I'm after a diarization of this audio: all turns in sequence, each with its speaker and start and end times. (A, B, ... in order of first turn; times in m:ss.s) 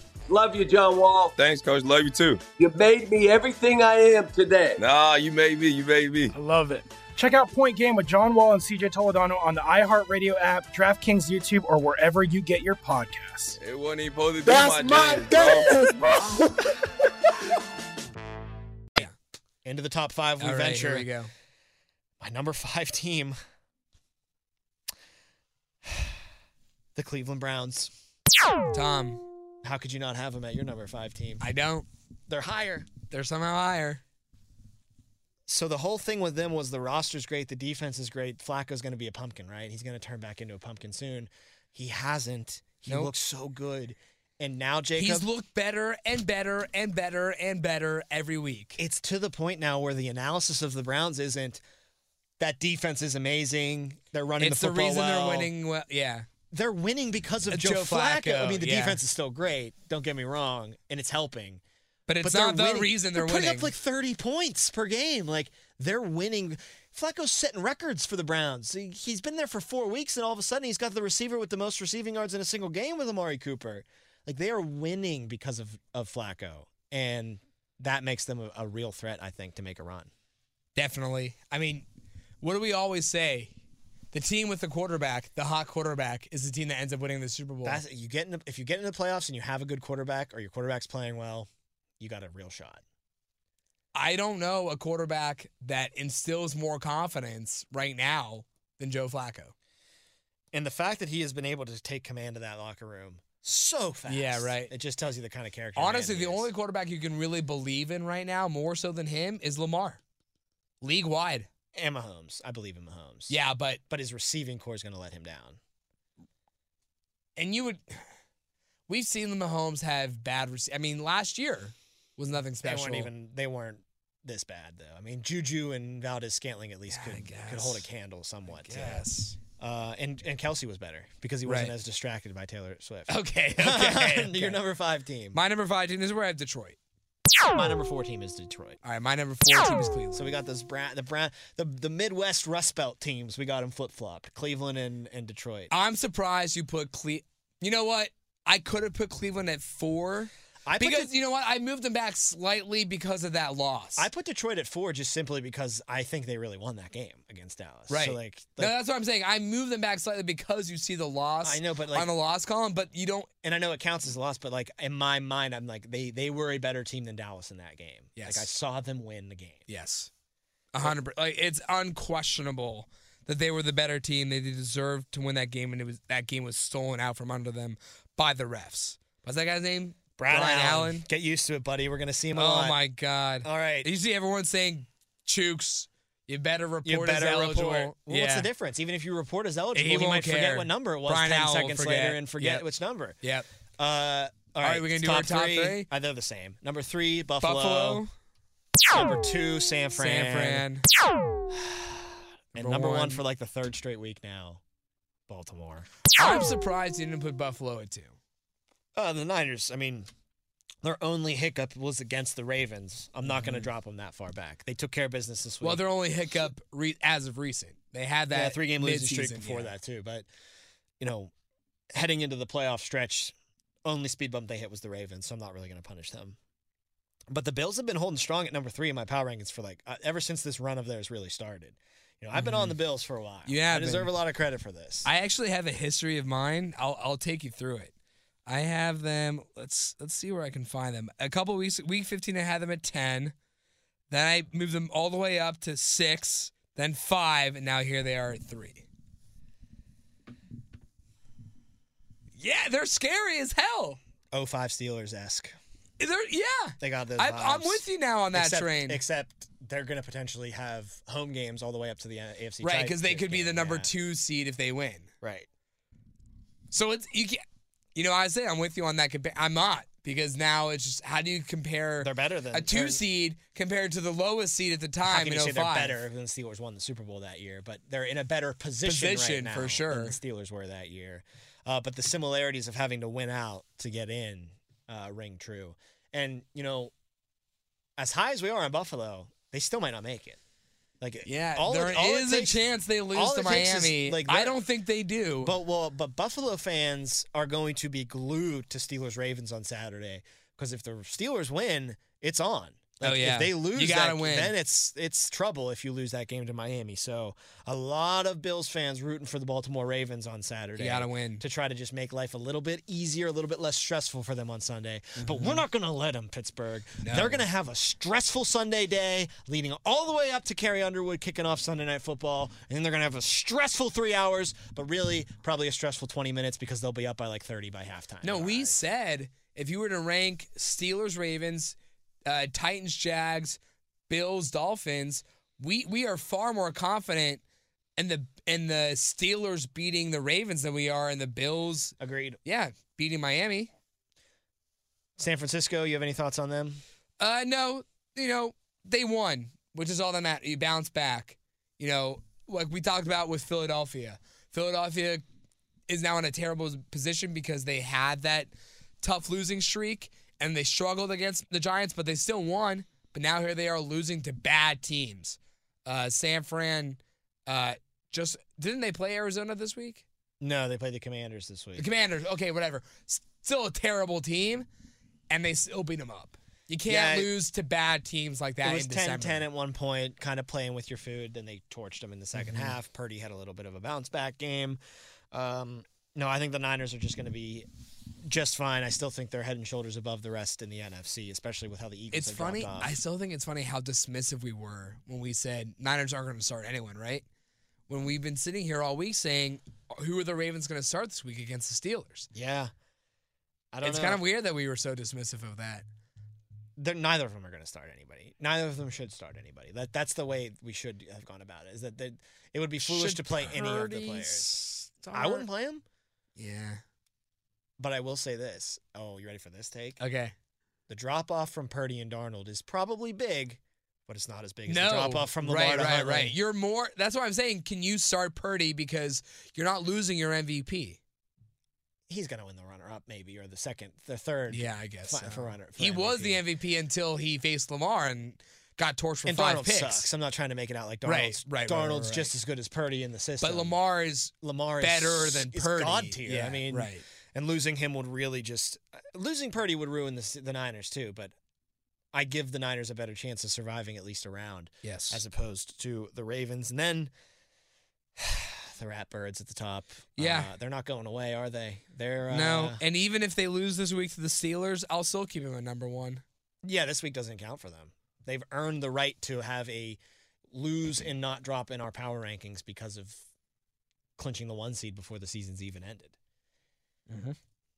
0:00.3-0:01.3 A
0:01.4-0:02.4 B
0:02.6-0:04.8 A
0:04.8-0:06.3 B
0:06.3-0:13.6 C
0:13.6-0:16.3 B
0:14.4-0:16.7 D
0:19.6-0:21.1 E
0:20.4-0:21.3 F
0:22.2-0:23.4 E
0:25.8-0:26.2 E
0:26.9-0:27.9 E
0:28.7-0:29.2 F
0:29.6-0:31.4 E
0:31.4-0:31.9 F
0:32.3-0:32.9 E
0:33.1-0:34.0 F
0:35.5-0:45.3 E
0:42.8-0:43.1 F
0:45.0-0:48.8 F
0:48.8-0:51.6 E
0:52.4-0:55.5 E
0:54.4-0:56.3 F
0:56.5-1:01.6 E
0:57.5-0:59.0 F
1:02.1-1:03.7 F
1:02.2-1:20.1 E
1:20.8-1:21.8 F
1:22.4-1:23.5 F
1:24.1-1:27.8 F
1:27.6-1:32.8 E
1:33.9-1:39.5 F
1:40.5-1:46.5 E
1:44.1-1:44.7 F
1:45.8-1:50.0 F
1:50.8-1:51.5 F
1:51.7-1:53.4 E
1:53.3-1:53.8 F
1:53.9-1:55.6 E
1:57.4-1:58.0 F
1:58.9-2:03.1 F
2:02.6-2:09.0 E
2:06.9-2:07.8 F
2:08.6-2:09.4 F
2:09.6-2:15.4 E
2:11.4-2:11.7 F
2:13.1-2:14.6 F
2:15.3-2:16.8 F
2:17.5-2:18.8 E
2:18.8-2:20.3 F
2:20.1-2:25.7 E
2:25.7-2:34.1 F
2:30.6-2:31.1 E
2:34.0-2:38.7 E
2:37.9-2:43.3 F
2:41.4-2:42.1 E
2:43.4-2:49.6 E
2:48.2-2:48.5 F
2:49.7-2:50.1 F
2:50.7-3:01.0 F
3:00.2-3:02.8 E
3:02.3-3:08.5 F
3:03.4-3:03.9 E
3:06.8-3:13.2 E
3:09.7-3:12.6 F
3:13.2-3:13.5 F
3:13.8-3:18.0 E
3:14.6-3:15.9 F
3:17.4-3:18.1 F
3:18.9-3:20.6 E
3:20.0-3:20.8 F
3:21.5-3:24.6 E
3:22.6-3:23.2 F
3:25.3-3:25.9 E
3:26.1-3:28.2 F
3:28.9-3:30.1 E
3:30.8-3:35.8 E
3:35.6-3:39.7 F
3:38.3-3:40.3 E
3:41.0-3:41.3 E
3:41.9-3:43.3 E
3:43.8-3:46.4 E
3:47.3-3:55.1 E
3:52.3-3:52.7 F
3:53.5-3:54.1 F
3:55.0-3:57.9 F
3:58.5-4:03.3 F
4:04.1-4:08.8 F
4:12.4-4:14.0 F
4:14.3-4:15.6 E
4:16.0-4:19.0 F
4:16.8-4:23.9 E
4:22.6-4:25.1 F
4:25.2-4:25.5 E
4:26.7-4:27.4 F
4:28.0-4:36.0 F
4:32.0-4:33.0 E
4:35.0-4:46.9 E
4:38.8-4:40.2 F
4:48.0-4:50.4 E
4:51.0-4:52.6 E
4:51.2-4:55.5 F
4:53.1-4:54.5 E
4:55.4-5:28.8 E
5:03.0-5:04.5 F
5:10.8-5:11.4 F
5:15.2-5:15.6 F
5:17.0-5:17.4 F
5:28.2-5:37.4 F
5:38.0-5:43.7 F
5:42.0-5:42.4 E
5:45.2-5:46.8 E
5:47.2-5:55.2 F
5:55.9-5:58.5 F
5:59.0-6:10.0 F
6:10.4-6:11.9 E
6:11.8-6:14.6 F
6:15.3-6:19.4 F
6:16.8-6:17.3 E
6:18.6-6:24.8 E
6:22.3-6:22.7 F
6:25.3-6:27.7 E
6:28.2-6:33.0 E
6:32.1-6:37.2 F
6:37.9-6:42.3 F
6:42.3-6:42.7 E
6:43.7-6:44.2 E
6:43.8-6:45.8 F
6:46.8-6:54.6 E
6:52.8-6:55.4 F
6:55.1-6:55.8 E
6:56.4-6:56.8 F
6:57.8-7:00.0 E
7:00.0-7:00.3 F
7:00.9-7:06.3 E
7:04.7-7:11.0 F
7:12.1-7:16.4 E
7:14.5-7:20.1 F
7:19.2-7:23.7 E
7:21.0-7:22.3 F
7:23.4-7:27.0 F
7:24.4-7:31.3 E
7:32.1-7:37.1 E
7:34.8-7:35.2 F
7:38.2-7:42.8 E
7:40.2-7:40.5 F
7:42.3-7:46.2 F
7:46.6-7:50.0 E
7:50.5-7:53.2 E
7:54.2-7:56.2 E